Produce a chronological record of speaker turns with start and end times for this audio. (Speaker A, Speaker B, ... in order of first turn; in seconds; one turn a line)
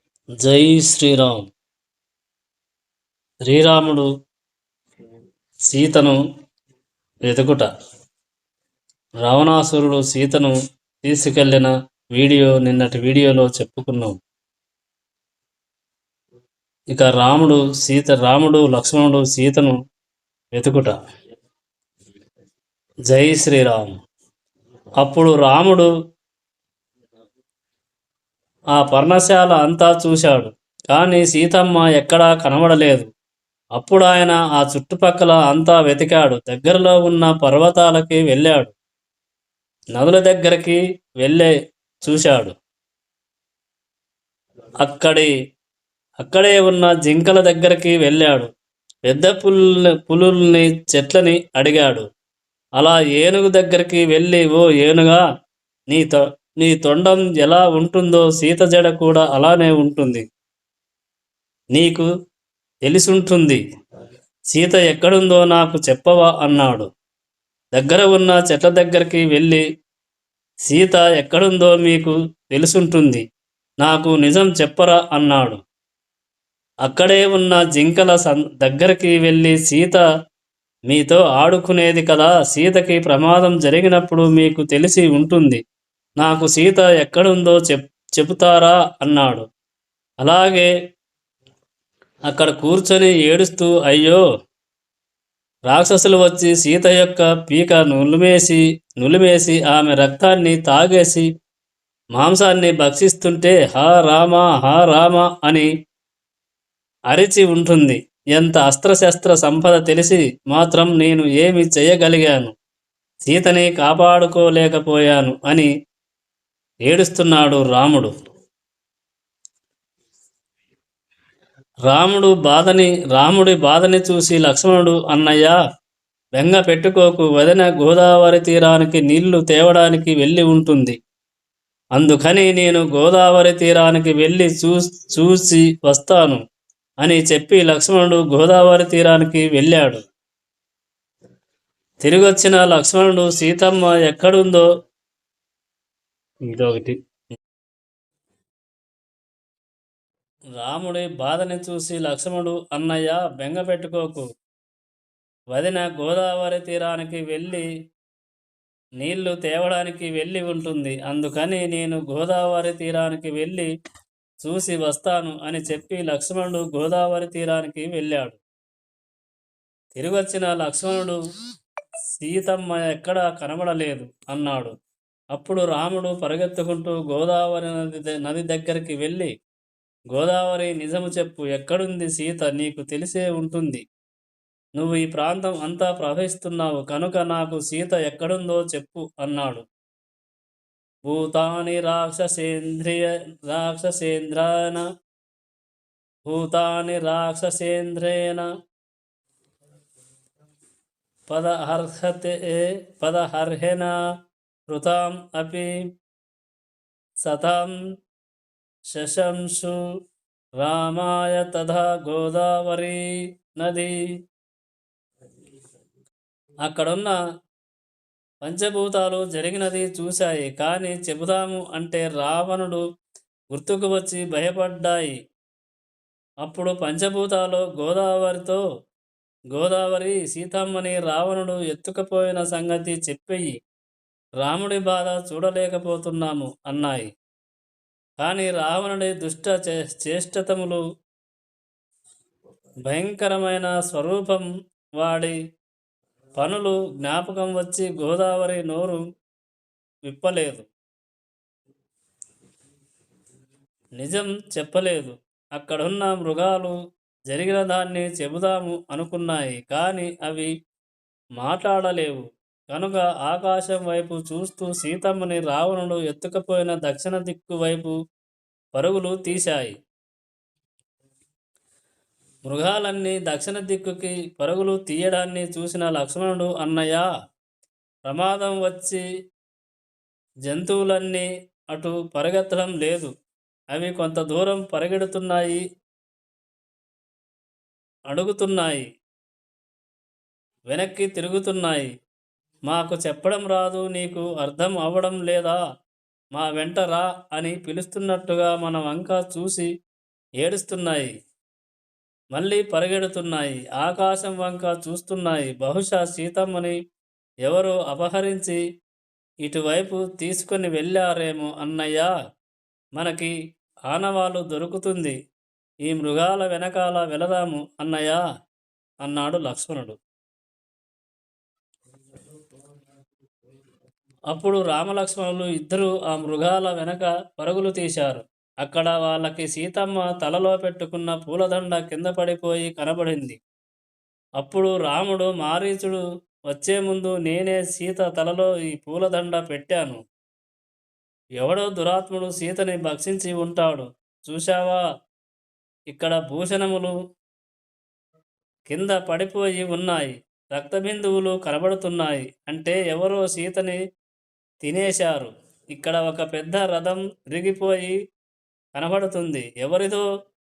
Speaker A: 0.4-1.4
Speaker A: 3.5-4.1
Speaker A: 5.7-6.2
Speaker A: 7.3-7.7
Speaker A: 9.2-14.1
Speaker A: 16.9-19.8
Speaker A: 20.5-20.9
Speaker A: 23.1-23.9
Speaker A: 25.0-25.9
Speaker A: 28.7-33.1
Speaker A: 33.8-38.7
Speaker A: 39.9-42.5
Speaker A: 44.8-45.3
Speaker A: 46.2-48.5
Speaker A: 49.1-52.0
Speaker A: 52.8-55.2
Speaker A: 55.9-60.2
Speaker A: 61.7-62.1
Speaker A: 62.9-63.6
Speaker A: 64.5-66.9
Speaker A: 67.7-69.6
Speaker A: 70.7-73.2
Speaker A: 73.8-75.6
Speaker A: 76.8-80.0
Speaker A: 80.9-85.6
Speaker A: 86.2-89.4
Speaker A: 90.2-90.7
Speaker A: 92.3-94.2
Speaker A: 95.7-101.3
Speaker A: 102.1-105.7
Speaker A: 107.1-112.5
Speaker A: 113.3-115.7
Speaker A: 116.9-118.1
Speaker A: 121.9-125.5
Speaker A: 126.4-130.9
Speaker A: 131.9-136.4
Speaker A: 137.0-140.0
Speaker A: 142.0-144.7
Speaker A: 146.5-147.0
Speaker A: 150.6-154.2
Speaker A: 155.5-157.6
Speaker A: 159.0-163.7
Speaker A: 164.4-168.4
Speaker A: 170.0-171.2
Speaker A: 172.1-174.7
Speaker A: 175.3-179.3
Speaker A: 180.1-183.8
Speaker A: 184.8-189.6
Speaker A: 191.1-194.8
Speaker A: 196.2-198.5
Speaker A: 201.3-203.9
Speaker A: 204.7-205.7
Speaker A: 207.2-207.7
Speaker A: 208.9-209.8
Speaker A: 210.6-213.0
Speaker A: 213.6-213.9
Speaker A: 216.7-217.2
Speaker A: 218.4-222.8
Speaker A: 223.5-225.2
Speaker A: 226.4-228.6
Speaker A: 229.5-233.5
Speaker A: 234.4-237.1
Speaker A: 238.2-240.8
Speaker A: 242.8-244.5
Speaker A: 245.0-245.4
Speaker A: 246.4-249.0
Speaker A: 250.1-250.7
Speaker A: 254.0-256.7
Speaker A: 257.3-260.5
Speaker A: 261.4-267.9
Speaker A: 268.8-269.7
Speaker A: 272.4-277.1
Speaker A: 278.1-279.0
Speaker A: 280.5-283.1
Speaker A: 283.7-285.6
Speaker A: 288.1-288.9
Speaker A: 290.7-291.9
Speaker A: 292.7-295.6
Speaker A: 296.3-299.7
Speaker A: 300.4-301.1
Speaker A: 302.3-306.8
Speaker A: 307.4-308.6
Speaker A: 309.4-312.1
Speaker A: 312.9-313.3
Speaker A: 313.9-315.1
Speaker A: 315.8-318.2
Speaker A: 319.0-320.0
Speaker A: 324.3-333.4
Speaker A: 334.4-340.0
Speaker A: 341.4-344.8
Speaker A: 345.9-346.9
Speaker A: 348.7-353.8
Speaker A: 354.6-357.9
Speaker A: 358.8-360.0